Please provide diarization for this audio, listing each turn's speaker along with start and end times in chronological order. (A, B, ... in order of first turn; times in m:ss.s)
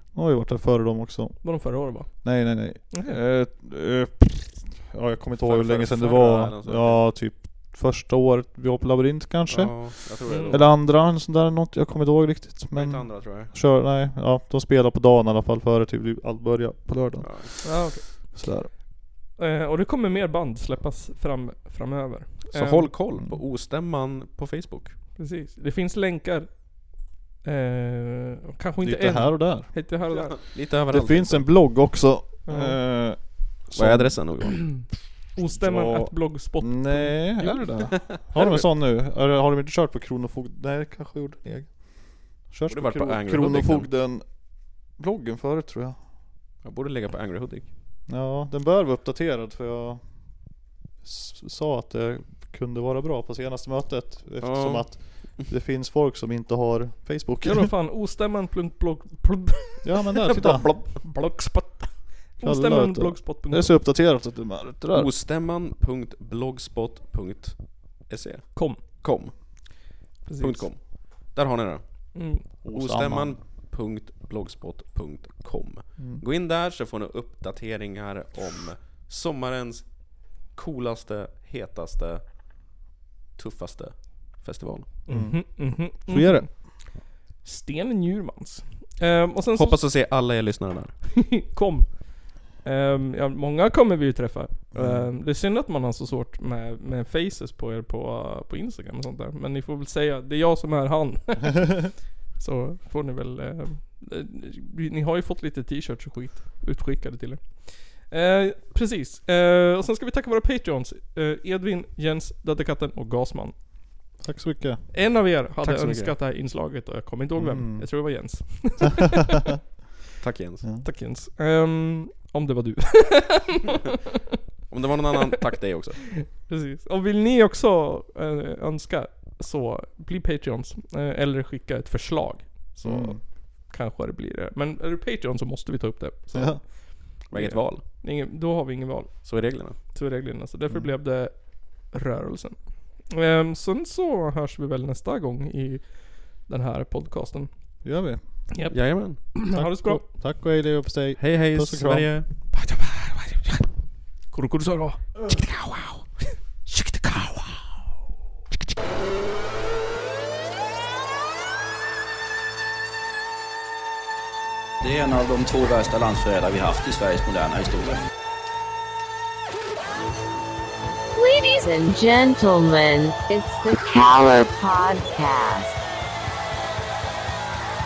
0:00.1-0:18.7 A
0:01.4-0:03.2 B
0:05.4-0:07.0 C
0:09.5-0:10.7 C
0:10.3-0:10.6 B
0:12.7-0:13.5 C
0:17.2-0:17.5 C
0:17.6-0:18.4 B
0:19.4-0:22.9 B
0:22.5-0:25.0 C
0:25.2-0:26.7 B
0:27.4-0:30.4 B
0:28.8-0:29.7 A
0:30.1-0:31.5 C
0:30.9-0:34.3 A
0:32.4-0:33.2 B
0:33.7-0:34.7 C
0:34.4-0:38.1 B
0:35.5-0:46.0 A
0:38.1-0:38.6 C
0:42.7-0:43.9 C
0:46.6-0:47.7 C
0:48.1-0:50.4 A
0:51.0-0:57.7 A
0:54.4-0:55.4 C
0:57.4-1:03.7 B
0:59.8-1:00.8 A
1:02.4-1:05.1 A
1:04.9-1:09.8 C
1:08.5-1:09.4 B
1:10.2-1:10.7 B
1:10.4-1:11.8 C
1:12.1-1:12.4 B
1:12.6-1:13.4 A
1:12.7-1:20.0 C
1:16.0-1:16.2 A
1:20.5-1:22.2 C
1:23.4-1:24.9 C
1:25.0-1:30.0 B
1:25.1-1:26.5 A
1:29.5-1:30.9 C
1:31.2-1:53.5 B
1:34.7-1:35.1 A
1:54.2-1:54.8 A
1:54.9-1:59.4 B
1:55.6-1:56.1 C
1:57.4-1:57.9 A
2:00.2-2:00.6 C
2:00.8-2:03.8 B
2:04.7-2:06.0 C
2:06.2-2:27.5 B
2:12.8-2:13.2 A
2:16.3-2:16.6 A
2:17.3-2:17.8 C
2:19.2-2:19.8 C
2:27.8-2:28.6 A
2:28.5-2:30.0 B
2:28.7-2:29.4 C
2:29.5-2:32.1 A
2:31.2-2:32.3 C
2:32.6-2:33.6 B
2:34.3-2:35.2 B
2:36.7-2:37.4 B
2:44.8-2:48.0 D
2:51.1-2:55.8 E